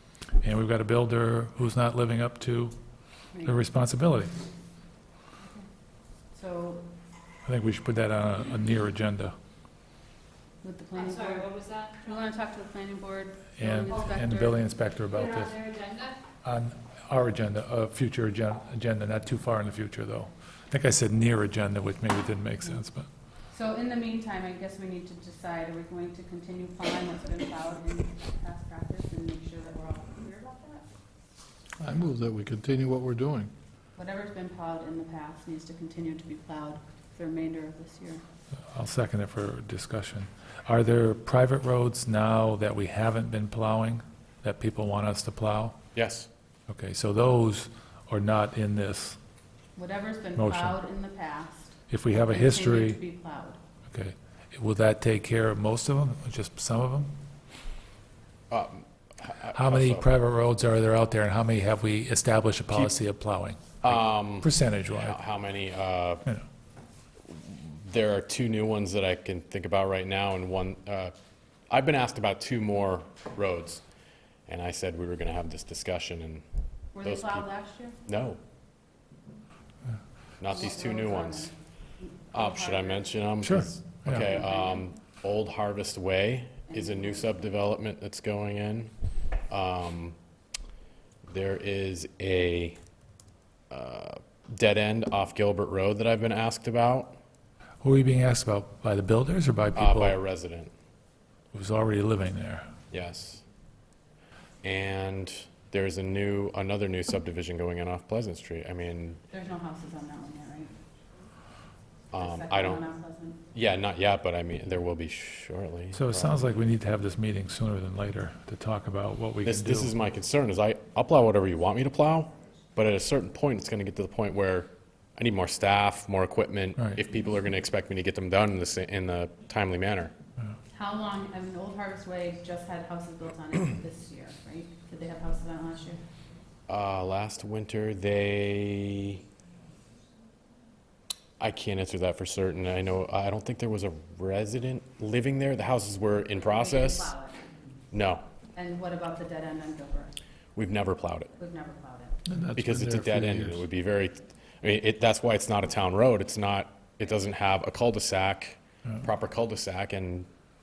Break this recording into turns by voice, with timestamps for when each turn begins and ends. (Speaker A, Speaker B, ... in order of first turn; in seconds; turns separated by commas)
Speaker A: 0.4-2.8, Speaker B: 3.3-3.6, Speaker A: 3.4-4.3, Speaker B: 6.3-6.9, Speaker A: 7.5-9.3, Speaker B: 10.6-14.6, Speaker C: 11.0-12.1, Speaker A: 13.6-15.6, Speaker C: 15.1-16.2, Speaker A: 16.4-23.1, Speaker B: 23.5-30.9, Speaker D: 31.8-33.5, Speaker B: 34.0-38.2, Speaker A: 38.7-45.8, Speaker E: 46.0-46.3, Speaker A: 46.7-49.2, Speaker B: 49.8-53.6, Speaker A: 50.4-50.8, Speaker A: 51.9-53.0, Speaker A: 53.9-57.1, Speaker E: 58.5-60.1, Speaker A: 59.5-65.2, Speaker E: 63.8-66.2, Speaker E: 67.3-71.1, Speaker E: 71.7-73.8, Speaker E: 74.5-76.4, Speaker B: 76.9-78.0, Speaker E: 77.0-77.5, Speaker E: 78.1-78.4, Speaker E: 80.4-81.5, Speaker B: 80.5-83.4, Speaker E: 82.3-88.9, Speaker A: 83.4-84.2, Speaker B: 84.1-84.9, Speaker B: 86.7-87.5, Speaker E: 89.5-90.2, Speaker E: 91.3-92.8, Speaker E: 93.7-97.2, Speaker A: 97.8-100.2, Speaker E: 99.8-100.7, Speaker A: 101.5-102.7, Speaker E: 102.9-103.4, Speaker E: 104.6-109.2, Speaker B: 109.3-110.7, Speaker E: 112.1-112.8, Speaker B: 112.2-113.4, Speaker E: 113.5-116.4, Speaker A: 115.9-119.9, Speaker E: 119.4-130.1, Speaker B: 130.7-136.0, Speaker E: 136.7-139.2, Speaker E: 141.4-147.1, Speaker B: 146.3-147.4, Speaker E: 147.9-148.2, Speaker B: 148.6-150.2, Speaker E: 150.6-151.3, Speaker B: 151.4-152.2, Speaker D: 152.3-153.7, Speaker E: 152.6-160.3